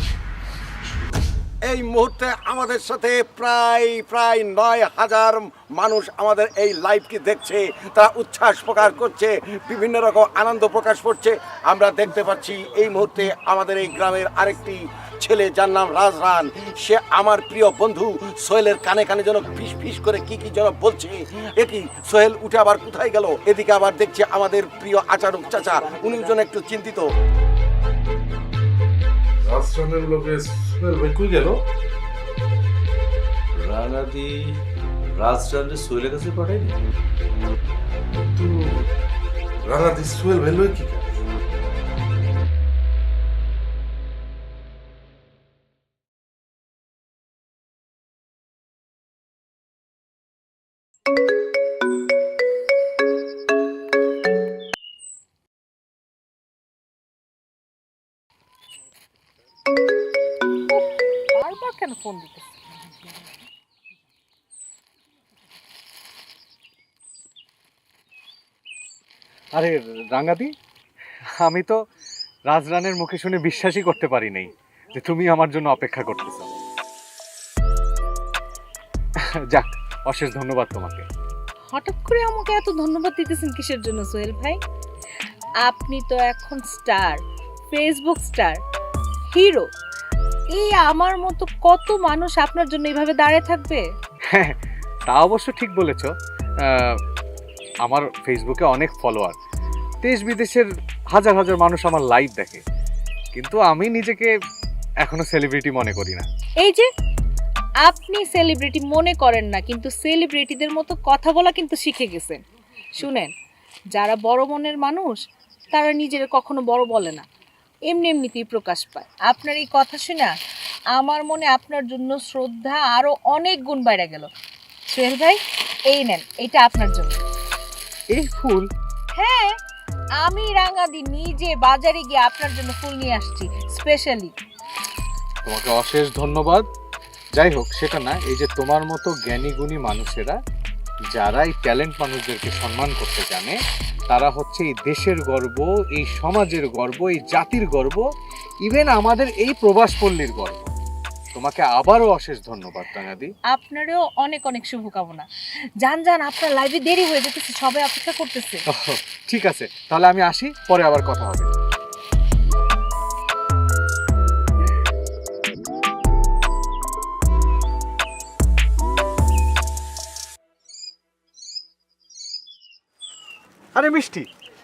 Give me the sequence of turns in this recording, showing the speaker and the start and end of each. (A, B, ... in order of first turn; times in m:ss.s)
0:01.7-0:27.0 A
0:29.4-0:31.6 B
0:33.6-0:34.5 C
0:35.2-0:36.8 C
0:38.4-0:38.8 B
0:39.7-0:41.1 B
1:00.7-1:02.6 D
1:09.6-1:10.5 E
1:11.4-1:11.8 E
1:12.5-1:16.5 E
1:19.5-1:21.0 E
1:21.7-1:24.6 D
1:25.6-1:27.2 D
1:27.7-1:28.6 D
1:29.3-1:29.7 D
1:30.6-1:33.8 D
1:35.1-1:36.1 E
1:37.8-1:39.4 E
1:40.0-1:42.6 E
1:43.3-1:44.3 E
1:45.0-1:46.3 E
1:46.6-1:46.9 D
1:47.8-1:52.4 D
1:53.0-1:53.3 D
1:53.9-1:55.2 D
1:55.7-1:57.2 D
1:57.9-2:00.3 D
2:01.0-2:04.3 D
2:04.9-2:05.4 D
2:05.9-2:07.2 D
2:08.1-2:08.7 E
2:09.2-2:09.5 D
2:10.2-2:14.3 D
2:15.4-2:16.6 E
2:17.4-2:20.4 E
2:21.1-2:23.6 E
2:24.1-2:28.0 E
2:28.6-2:30.7 E
2:31.4-2:33.3 E
2:33.5-2:35.3 D
2:35.8-2:38.6 D
2:38.7-2:41.5 E
2:53.8-2:54.3 E